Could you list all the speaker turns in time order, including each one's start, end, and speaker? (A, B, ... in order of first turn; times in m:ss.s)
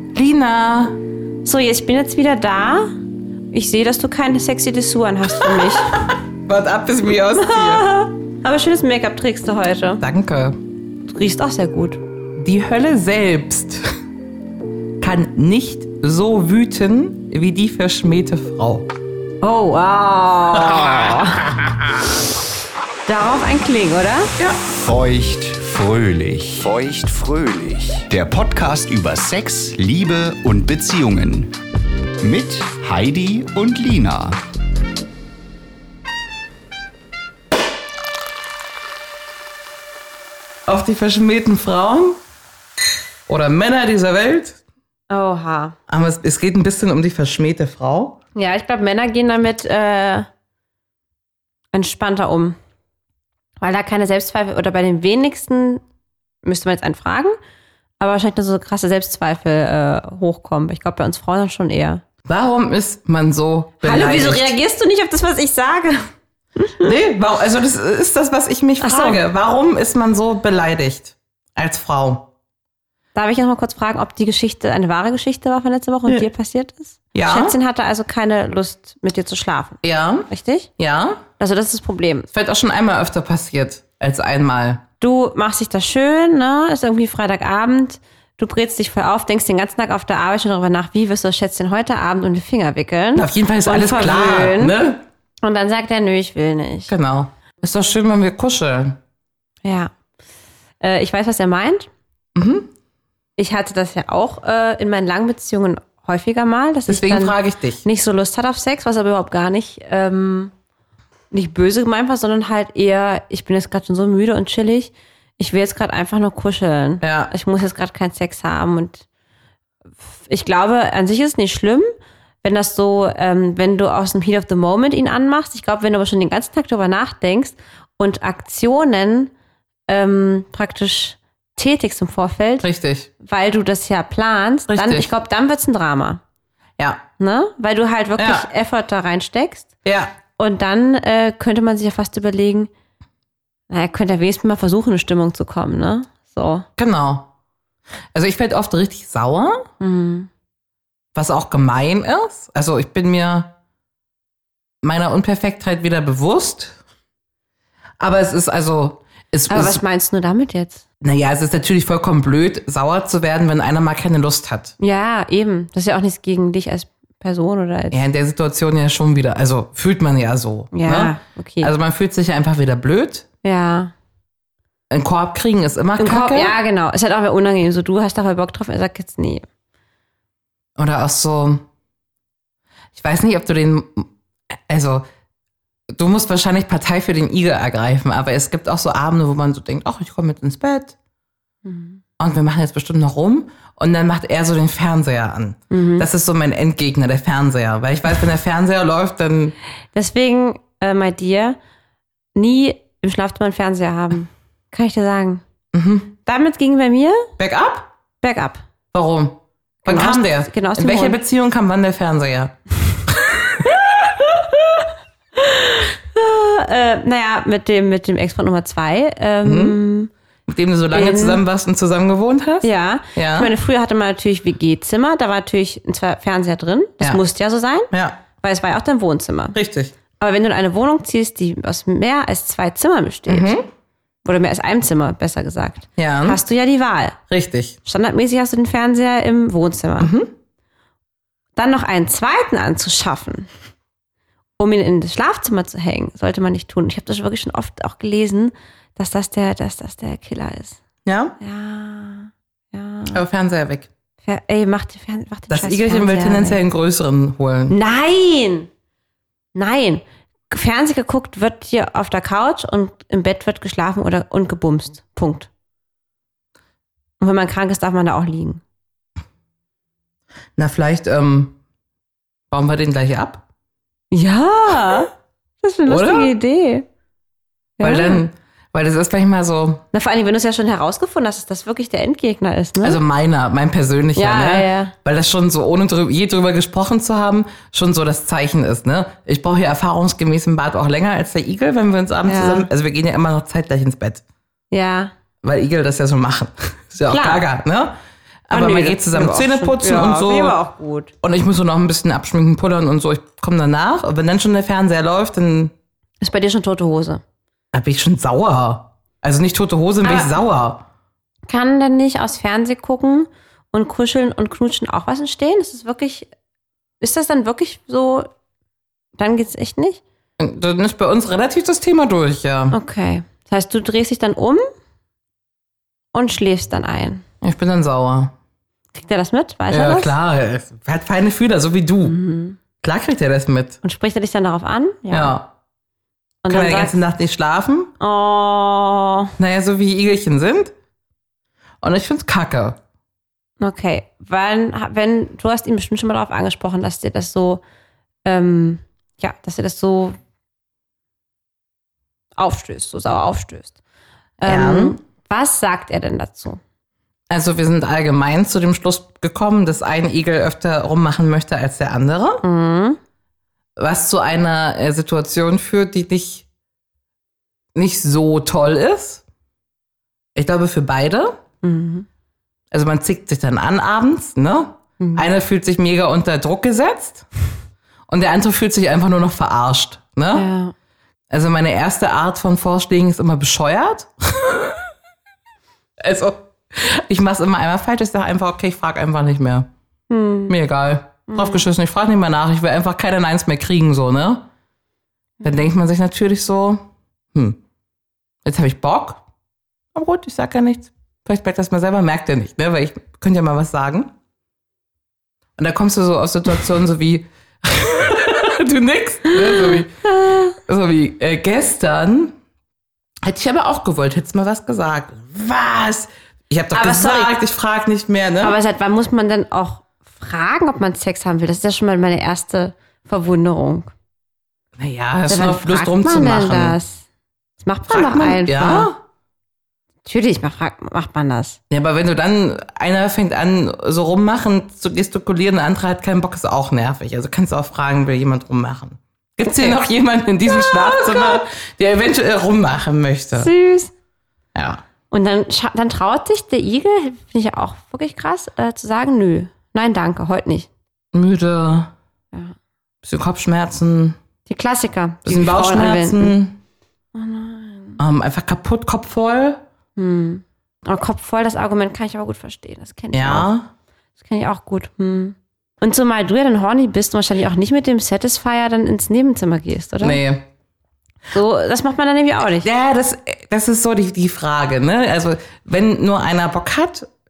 0:00.1-0:01.0 A
0:01.4-0:02.9 B
0:03.5-0:06.0 B
0:05.4-0:07.8 A
0:07.4-0:10.0 B
0:10.0-0:10.6 A
0:11.1-0:12.0 B
0:12.4-0:13.9 A
0:15.0-0:18.9 A
0:19.4-0:21.6 B
0:20.6-0:21.3 A
0:23.1-0:24.3 B
0:24.7-0:31.6 C
0:32.2-0:34.4 C
0:40.7-0:42.2 A
0:43.3-0:44.6 A
0:45.1-0:45.8 B
0:45.9-0:48.2 A
0:48.4-0:50.3 B
0:51.7-0:52.6 B
0:53.6-0:55.8 B
0:56.4-0:57.4 B
0:58.0-1:02.0 B
1:02.2-1:04.5 A
1:03.8-1:06.9 B
1:06.8-1:12.3 A
1:08.8-1:09.2 B
1:13.2-1:20.7 B
1:17.1-1:17.6 A
1:19.8-1:21.2 A
1:21.4-1:22.3 B
1:22.3-1:24.8 A
1:25.0-1:34.7 B
1:33.2-1:35.0 A
1:35.4-1:36.9 B
1:36.9-1:39.0 A
1:39.6-1:39.9 B
1:40.8-1:41.9 B
1:42.4-1:42.7 A
1:43.4-1:50.5 B
1:46.9-1:47.8 A
1:51.3-1:59.0 B
1:57.0-1:57.3 A
2:00.1-2:01.9 B
2:02.4-2:09.3 B
2:09.9-2:12.7 B
2:12.6-2:13.1 A
2:13.2-2:16.2 B
2:14.7-2:15.1 A
2:16.8-2:17.0 A
2:17.2-2:19.7 B
2:18.2-2:18.5 A
2:19.8-2:20.1 A
2:20.4-2:22.7 B
2:23.7-2:26.7 B
2:26.8-2:27.3 A
2:28.1-2:29.7 A
2:29.8-2:30.3 B
2:31.1-2:33.5 A
2:34.8-2:36.8 A
2:38.0-2:39.8 A
2:39.5-2:40.8 B
2:41.0-2:44.8 A
2:44.8-2:48.0 B
2:47.9-2:53.3 A
2:50.7-2:51.7 B
2:53.4-2:53.9 B
2:54.9-2:56.6 A
2:56.0-2:59.5 B
3:00.8-3:01.6 A
3:02.9-3:05.0 A
3:05.9-3:11.0 A
3:11.6-3:12.0 B
3:12.2-3:19.6 A
3:15.7-3:16.1 B
3:19.9-3:21.6 B
3:22.4-3:25.4 B
3:25.7-3:26.1 A
3:26.2-3:27.3 B
3:27.4-3:27.9 A
3:28.2-3:28.6 B
3:28.9-3:32.6 A
3:29.8-3:31.2 B
3:33.2-3:33.6 A
3:33.9-3:34.6 B
3:35.4-3:40.1 B
3:39.4-3:39.8 A
3:40.5-3:43.5 A
3:40.9-3:41.4 B
3:42.6-3:49.6 B
3:47.9-3:48.2 A
3:49.5-3:49.9 A
3:50.2-3:53.5 B
3:53.3-3:53.7 A
3:54.2-3:57.2 B
3:56.0-3:56.4 A
3:57.3-3:57.8 A
3:57.8-4:00.1 B
4:00.0-4:00.3 A
4:01.6-4:03.5 B
4:04.6-4:10.8 B
4:11.0-4:11.4 A
4:11.4-4:13.2 B
4:13.1-4:13.9 A
4:14.2-4:16.6 B
4:15.5-4:17.8 A
4:17.7-4:18.7 B
4:19.5-4:25.5 B
4:27.2-4:28.6 B
4:30.6-4:31.6 A
4:32.5-4:33.4 A
4:34.1-4:36.9 B
4:35.9-4:36.3 A
4:37.8-4:38.2 B
4:37.8-4:39.8 A
4:39.9-4:43.0 B
4:42.8-4:54.2 A
4:44.2-4:45.0 B
4:52.2-4:52.7 B
4:54.7-4:55.1 B
4:55.4-4:58.0 A
4:57.1-4:57.4 B
4:58.5-5:00.6 A
4:58.5-5:01.1 B
5:01.2-5:05.7 A
5:06.2-5:07.2 B
5:07.7-5:10.8 A
5:10.0-5:10.3 B
5:11.5-5:16.3 B
5:17.0-5:18.3 B
5:19.2-5:20.0 B
5:20.4-5:22.8 A
5:22.7-5:24.7 B
5:26.1-5:27.2 B
5:27.4-5:28.3 A
5:28.9-5:30.1 B
5:29.7-5:32.2 A
5:32.0-5:32.6 B
5:32.8-5:33.8 A
5:33.8-5:35.4 B
5:35.1-5:35.5 A
5:36.4-5:37.0 B
5:36.5-5:37.9 A
5:38.0-5:39.3 B
5:39.4-5:40.7 A
5:41.8-5:42.8 A
5:43.6-5:47.6 B
5:48.2-5:50.2 B
5:52.4-5:53.8 B
5:54.4-5:56.6 B
5:54.4-5:55.0 A
5:57.3-6:02.4 A
6:02.4-6:03.0 B
6:03.8-6:06.5 A
6:07.8-6:09.2 A
6:10.4-6:11.4 A
6:11.6-6:12.1 B
6:12.7-6:17.3 A
6:15.0-6:15.2 B
6:18.1-6:20.5 A
6:20.3-6:20.7 B
6:21.3-6:24.9 A
6:26.0-6:29.7 A
6:30.1-6:30.6 B
6:30.5-6:34.5 A
6:31.3-6:31.6 B
6:35.4-6:37.6 A
6:38.4-6:39.2 A
6:39.9-6:44.1 A
6:45.6-6:49.9 A
6:49.3-6:50.6 B
6:50.5-6:52.4 A
6:53.2-6:58.6 A
6:56.7-6:57.3 B
6:58.4-7:03.9 B
7:04.8-7:06.8 A
7:05.3-7:07.0 B
7:07.6-7:08.9 B
7:07.9-7:09.0 A
7:10.0-7:11.6 B
7:11.7-7:23.5 A
7:19.4-7:19.8 B
7:20.5-7:21.4 B
7:23.4-7:23.9 B
7:24.6-7:24.8 A
7:25.1-7:30.7 B
7:31.1-7:31.9 A
7:33.0-7:34.2 A
7:34.5-7:36.3 B
7:35.2-7:36.6 A
7:37.1-7:38.0 B
7:38.0-7:39.6 A
7:40.0-7:43.5 B
7:43.1-7:43.7 A
7:44.2-7:50.2 B
7:50.0-7:50.5 A
7:51.3-7:52.7 B
7:52.6-7:57.1 A